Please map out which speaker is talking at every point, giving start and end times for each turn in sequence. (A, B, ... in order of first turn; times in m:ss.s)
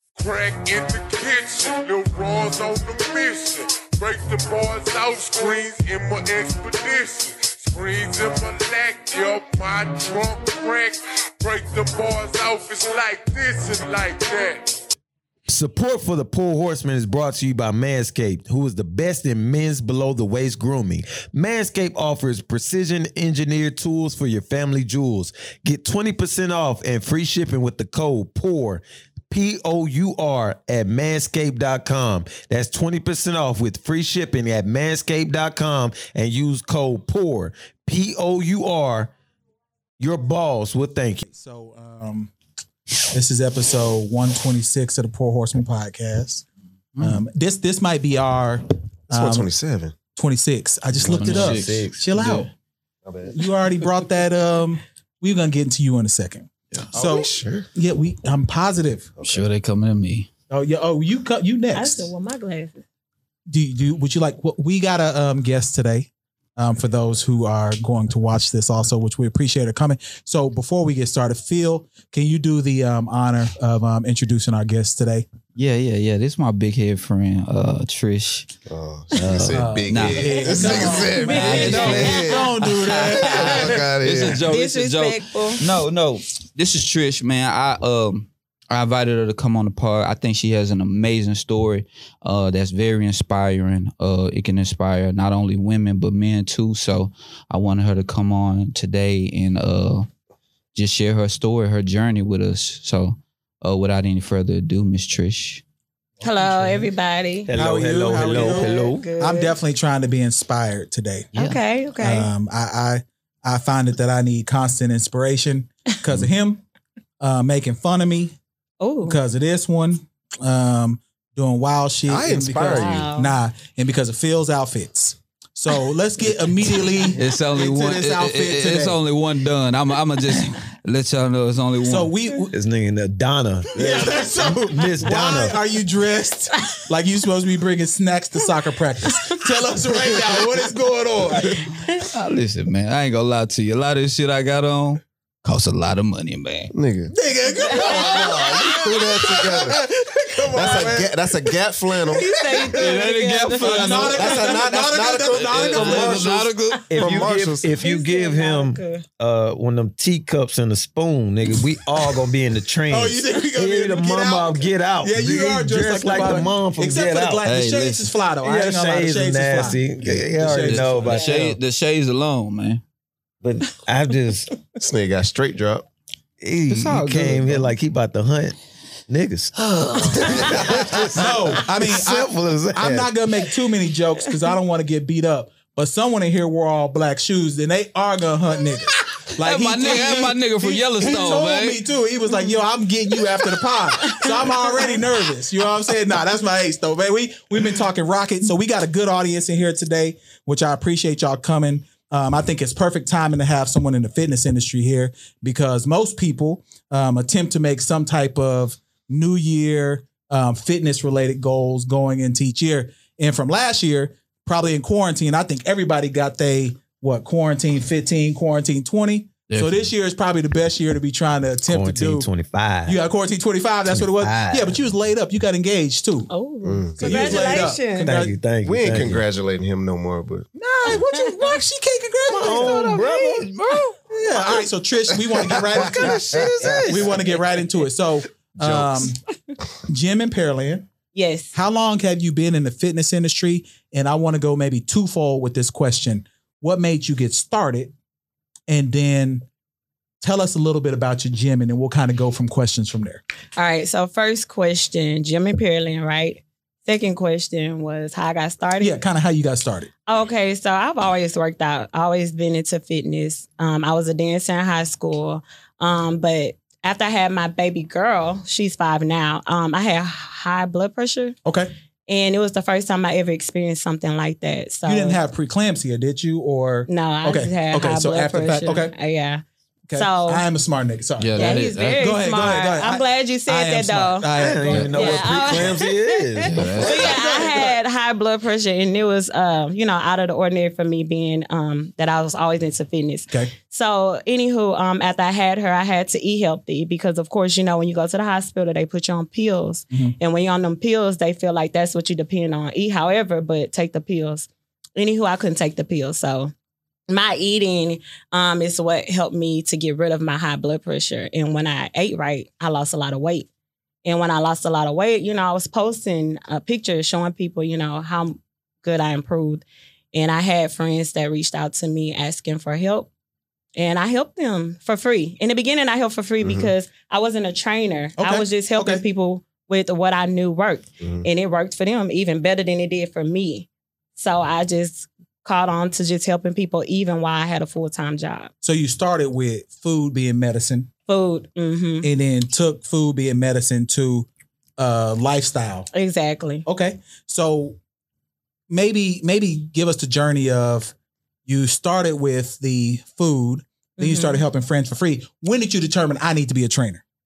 0:00.2-0:14.8 A
0:15.5-0:39.1 B
0:40.0-0:41.2 B
0:41.2-0:42.3 C
0:43.1-0:46.4 C
0:47.0-0:47.2 D
0:47.0-0:49.5 C
0:49.1-0:49.9 E
0:50.2-0:52.5 C
0:50.9-0:52.4 D
0:51.0-0:52.4 B
0:53.0-0:53.3 E
0:53.3-0:59.2 C
0:56.8-0:57.7 E
0:59.2-1:00.3 D
1:00.5-1:02.1 C
1:01.7-1:02.8 F
1:03.5-1:15.2 C
1:15.6-1:18.5 D
1:18.7-1:24.5 E
1:19.1-1:19.7 B
1:19.3-1:40.1 D
1:19.5-1:23.8 C
1:20.4-1:22.5 F
1:24.5-1:25.6 F
1:40.7-1:45.6 D
1:46.2-1:46.9 C
1:46.2-1:47.5 F
1:47.5-1:49.0 B
1:47.5-1:51.3 C
1:48.1-1:49.6 F
1:51.4-1:52.3 F
1:52.0-1:56.6 C
1:57.2-1:58.4 C
1:58.8-1:59.2 F
1:59.0-2:09.0 C
2:02.1-2:03.1 E
2:02.6-2:03.3 F
2:07.1-2:12.1 D
2:11.8-2:12.5 C
2:12.5-2:15.6 B
2:13.7-2:21.7 C
2:19.2-2:19.4 F
2:22.0-2:26.7 D
2:26.7-2:27.1 E
2:27.1-2:31.5 C
2:27.5-2:28.8 F
2:28.1-2:29.8 E
2:30.5-2:32.3 E
2:32.1-2:34.1 F
2:32.7-2:37.1 D
2:33.6-2:36.5 C
2:34.0-2:36.3 E
2:35.8-2:47.4 B
2:37.0-2:37.8 E
2:37.7-2:39.0 F
2:42.9-2:51.2 C
2:47.4-2:48.1 D
2:48.4-2:51.6 B
2:50.5-2:52.8 D
2:51.1-2:51.4 F
2:53.4-2:54.5 B
2:54.8-2:55.8 E
2:56.4-2:58.6 B
2:56.7-2:57.8 D
2:59.1-3:03.1 B
3:00.4-3:01.1 E
3:01.2-3:42.3 C
3:09.4-3:11.8 D
3:14.0-3:15.0 F
3:39.5-3:39.9 D
3:41.7-3:43.0 B
3:42.8-3:46.3 C
3:43.9-3:44.8 B
3:46.3-3:48.1 F
3:46.6-3:47.6 E
3:47.0-3:48.4 C
3:48.0-3:49.2 B
3:48.6-3:50.5 E
3:50.6-3:53.0 C
3:51.0-3:51.5 F
3:52.3-3:53.5 B
3:52.6-3:54.0 D
3:54.1-3:59.2 C
3:55.3-3:57.0 E
3:58.6-3:59.1 E
3:59.9-4:00.9 C
4:01.1-4:01.5 F
4:01.5-4:07.9 C
4:08.7-4:09.4 C
4:10.2-4:13.2 C
4:13.6-4:18.9 F
4:18.8-4:19.9 C
4:20.1-4:31.4 F
4:31.4-4:31.7 C
4:32.1-4:35.2 F
4:34.8-4:38.9 C
4:36.9-4:39.4 F
4:39.9-4:45.8 C
4:39.9-4:40.4 F
4:41.2-4:42.1 D
4:41.3-4:44.3 F
4:44.3-4:47.2 B
4:44.6-4:44.9 D
4:44.9-5:06.5 F
4:46.4-4:47.2 D
4:46.8-4:47.7 C
5:07.1-5:13.5 F
5:14.0-5:23.1 F
5:23.8-5:38.5 F
5:26.4-5:26.7 E
5:28.2-5:29.0 C
5:31.0-5:31.2 E
5:38.6-5:40.9 C
5:41.1-5:42.1 F
5:42.0-5:44.3 C
5:44.8-5:45.9 C
5:45.9-5:46.6 F
5:46.6-5:47.8 C
5:48.7-5:50.9 C
5:51.4-5:57.0 C
5:54.0-5:54.4 F